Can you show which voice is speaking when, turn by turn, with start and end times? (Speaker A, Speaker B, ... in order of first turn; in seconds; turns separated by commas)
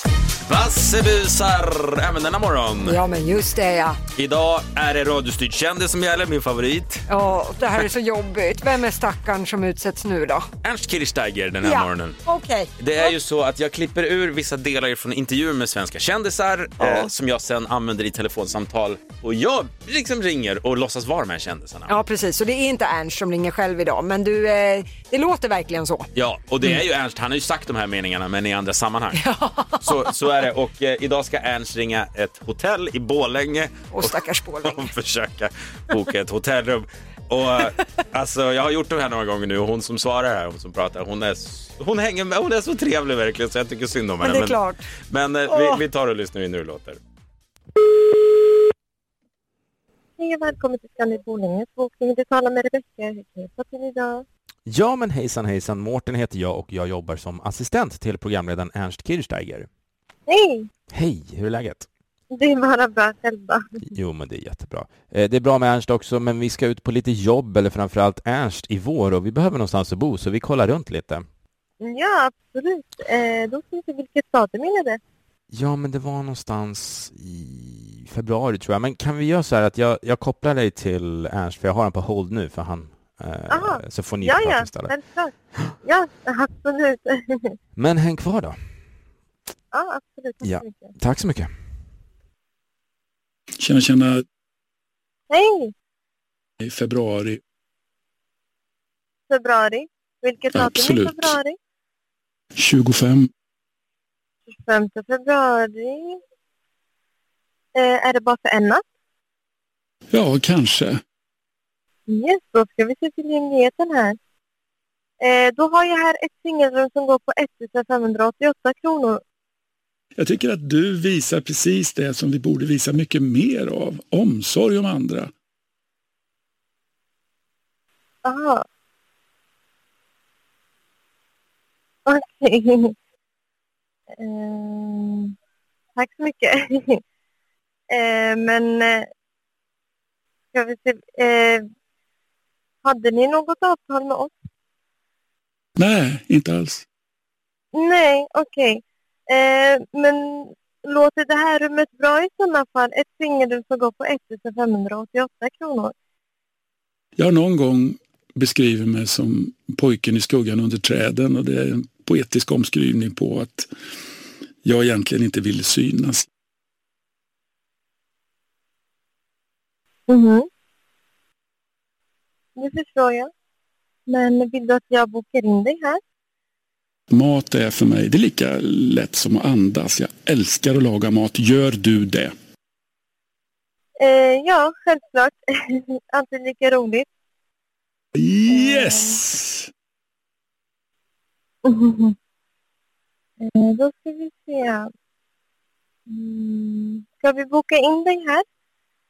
Speaker A: 0.5-3.0, Speaker B: 2.9-4.0, Speaker A: 4.2-7.0, Speaker B: 7.1-10.5, Speaker A: 10.6-12.2, Speaker B: 11.6-13.1, Speaker A: 12.8-21.9, Speaker B: 16.8-17.1, Speaker B: 21.9-26.1, Speaker A: 26.1-29.2, Speaker B: 29.2-29.9, Speaker A: 29.8-47.0, Speaker B: 33.9-34.9, Speaker B: 44.2-44.8, Speaker B: 45.5-45.8, Speaker C: 50.2-54.2, Speaker D: 54.7-59.7, Speaker C: 60.3-60.7, Speaker D: 60.9-61.9, Speaker C: 62.3-63.6, Speaker D: 63.9-71.3, Speaker C: 71.8-75.0, Speaker D: 75.5-84.9, Speaker C: 83.5-85.3, Speaker C: 85.8-87.5, Speaker D: 87.8-88.6, Speaker C: 89.7-90.9, Speaker D: 90.4-91.5, Speaker E: 93.6-94.2, Speaker C: 95.3-95.7, Speaker E: 96.6-97.4, Speaker C: 99.3-101.6, Speaker E: 100.5-101.4, Speaker E: 102.6-103.3, Speaker C: 104.5-106.2, Speaker C: 107.8-108.8, Speaker E: 110.1-111.0, Speaker C: 112.1-114.2, Speaker C: 115.2-119.2, Speaker E: 120.2-125.3, Speaker C: 128.2-128.6, Speaker C: 132.1-132.9, Speaker C: 134.2-135.3, Speaker C: 136.0-137.0, Speaker C: 137.9-139.1, Speaker C: 140.5-141.6, Speaker C: 142.8-144.3, Speaker E: 145.8-146.8, Speaker C: 147.8-148.8, Speaker C: 149.3-155.9, Speaker E: 157.2-163.7, Speaker E: 164.6-166.3, Speaker C: 170.1-170.5, Speaker C: 172.6-173.3, Speaker C: 174.1-176.0, Speaker E: 177.1-182.3, Speaker C: 184.0-187.1, Speaker E: 188.2-189.7, Speaker C: 188.5-188.9, Speaker C: 191.7-192.1, Speaker C: 193.5-194.9, Speaker C: 196.1-198.4